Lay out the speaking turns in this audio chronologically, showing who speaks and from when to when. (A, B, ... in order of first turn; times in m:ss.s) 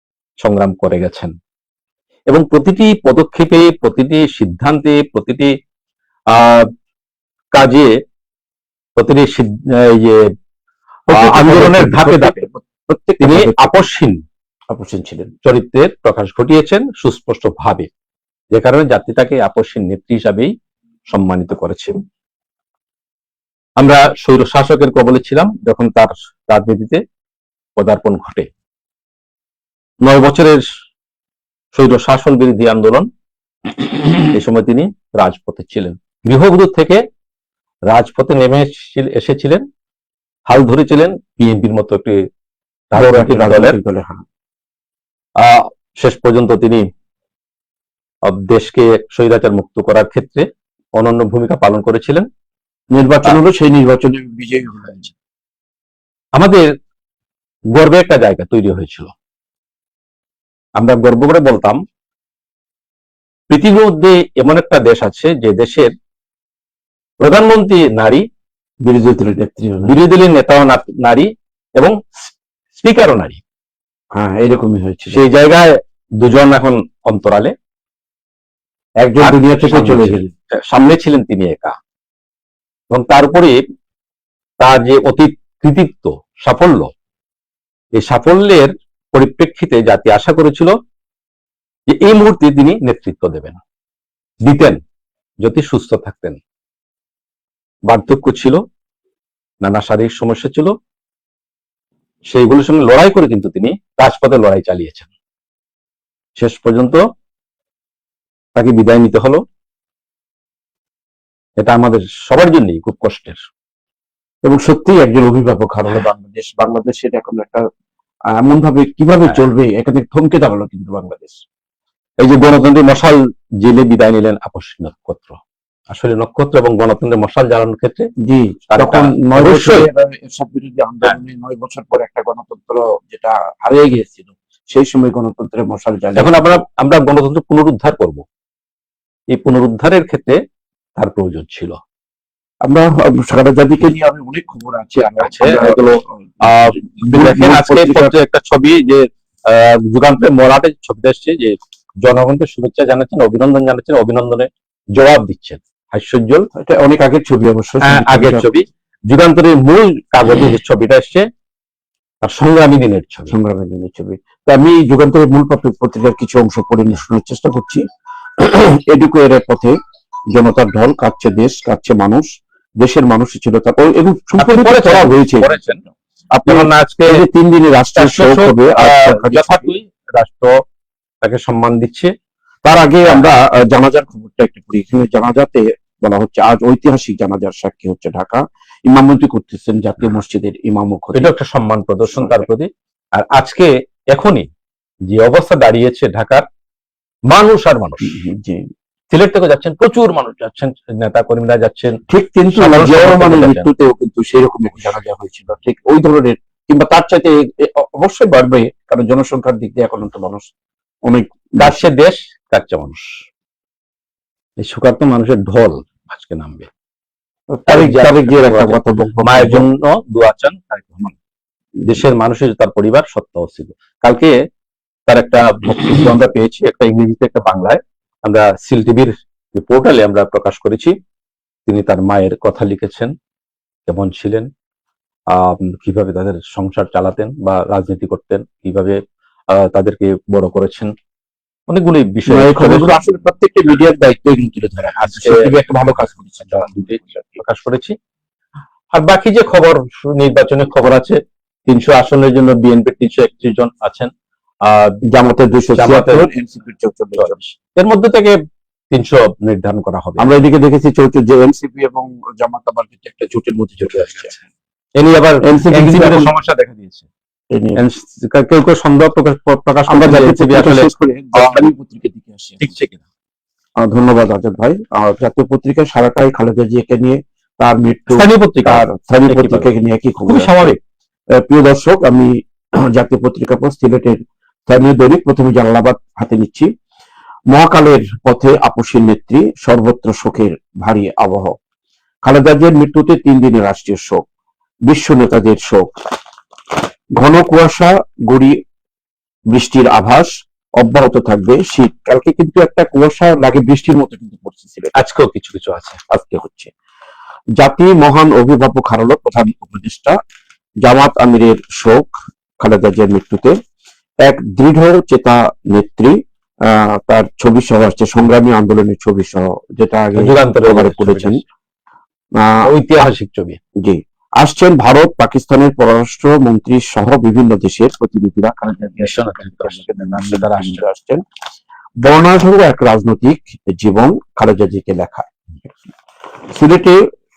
0:00.4-0:01.3 A
0:02.3-0:05.5 A
0:06.3-0:06.7 A
0:07.5-0:07.9 A
0:09.0-0:10.3 A
0:11.1-0:13.9 B
0:11.1-0:12.4 A
0:13.2-0:14.2 A
0:14.7-0:15.3 B
0:15.4-0:17.9 A
0:18.5-0:20.5 A
0:21.1-0:22.0 A
0:23.8-0:27.0 A
0:27.8-0:28.5 A
0:30.0-0:30.6 A
0:31.7-0:33.1 A
0:33.8-0:37.0 A
0:37.9-0:39.6 A
0:40.5-0:42.2 A
0:42.9-0:43.8 A
0:43.0-0:44.2 B
0:45.4-0:46.8 A
0:48.2-0:52.3 A
0:52.9-0:55.1 B
0:56.4-0:56.7 A
0:57.7-0:59.1 A
1:00.8-1:01.8 A
1:03.5-1:05.9 A
1:07.2-1:08.2 A
1:08.8-1:10.0 B
1:09.8-1:13.4 A
1:14.1-1:15.2 B
1:15.1-1:17.5 A
1:19.0-1:20.3 B
1:19.2-1:21.8 A
1:22.9-1:23.6 A
1:24.6-1:26.9 A
1:28.0-1:30.7 A
1:31.9-1:33.6 A
1:34.4-1:34.8 A
1:35.4-1:36.4 A
1:37.9-1:38.6 A
1:39.6-1:40.7 A
1:42.3-1:45.1 A
1:46.4-1:47.0 A
1:48.6-1:49.4 A
1:51.6-1:53.4 A
1:54.4-1:57.7 B
1:58.3-2:01.4 B
2:02.2-2:05.4 A
2:05.9-2:08.1 A
2:08.2-2:16.6 B
2:08.7-2:09.9 A
2:16.2-2:18.2 A
2:19.3-2:20.4 A
2:21.0-2:21.8 A
2:22.6-2:28.2 B
2:25.2-2:36.5 A
2:36.5-2:38.5 B
2:37.8-2:41.3 A
2:42.2-2:43.4 A
2:43.3-2:47.9 B
2:48.4-2:49.8 B
2:50.3-2:52.3 B
2:52.8-2:55.5 B
2:54.4-2:55.9 A
2:56.3-2:59.7 B
2:56.5-2:57.2 A
2:58.0-3:00.6 A
3:01.2-3:02.1 A
3:02.6-3:11.3 B
3:03.0-3:03.3 A
3:11.1-3:14.5 A
3:12.1-3:12.4 B
3:15.1-3:16.5 A
3:17.3-3:18.2 A
3:18.0-3:18.7 B
3:19.1-3:22.0 A
3:22.1-3:30.5 B
3:22.5-3:23.7 A
3:31.0-3:31.8 B
3:31.6-3:33.2 A
3:34.6-3:36.7 A
3:37.5-3:39.7 B
3:37.7-3:41.2 A
3:41.8-3:44.4 A
3:45.1-3:51.0 A
3:51.7-3:53.1 A
3:53.9-3:54.5 A
3:55.3-3:59.0 A
3:59.5-4:00.9 A
4:01.7-4:03.0 A
4:02.3-4:07.4 B
4:05.0-4:05.5 A
4:06.5-4:08.0 A
4:08.9-4:14.1 A
4:14.6-4:15.0 A
4:15.1-4:17.4 B
4:15.8-4:16.3 A
4:17.2-4:18.4 A
4:18.9-4:20.3 A
4:20.2-4:24.3 B
4:23.8-4:24.4 A
4:25.0-4:27.1 A
4:25.4-4:26.3 B
4:27.5-4:27.8 B
4:27.8-4:31.7 A
4:29.9-4:32.7 B
4:32.6-4:33.0 A
4:33.8-4:40.8 B
4:38.1-4:39.7 A
4:40.3-4:40.8 A
4:41.3-4:46.7 B
4:47.5-4:51.6 B
4:52.2-4:54.2 B
4:54.9-4:56.0 B
4:57.2-4:58.6 B
4:59.5-5:05.0 B
5:05.0-5:06.0 A
5:06.1-5:06.7 B
5:07.6-5:10.2 B
5:10.8-5:13.6 B
5:14.2-5:21.4 B
5:20.2-5:21.4 A
5:22.4-5:22.7 B
5:22.6-5:23.6 A
5:23.8-5:31.2 B
5:29.0-5:30.8 A
5:32.0-5:35.9 B
5:36.5-5:37.0 B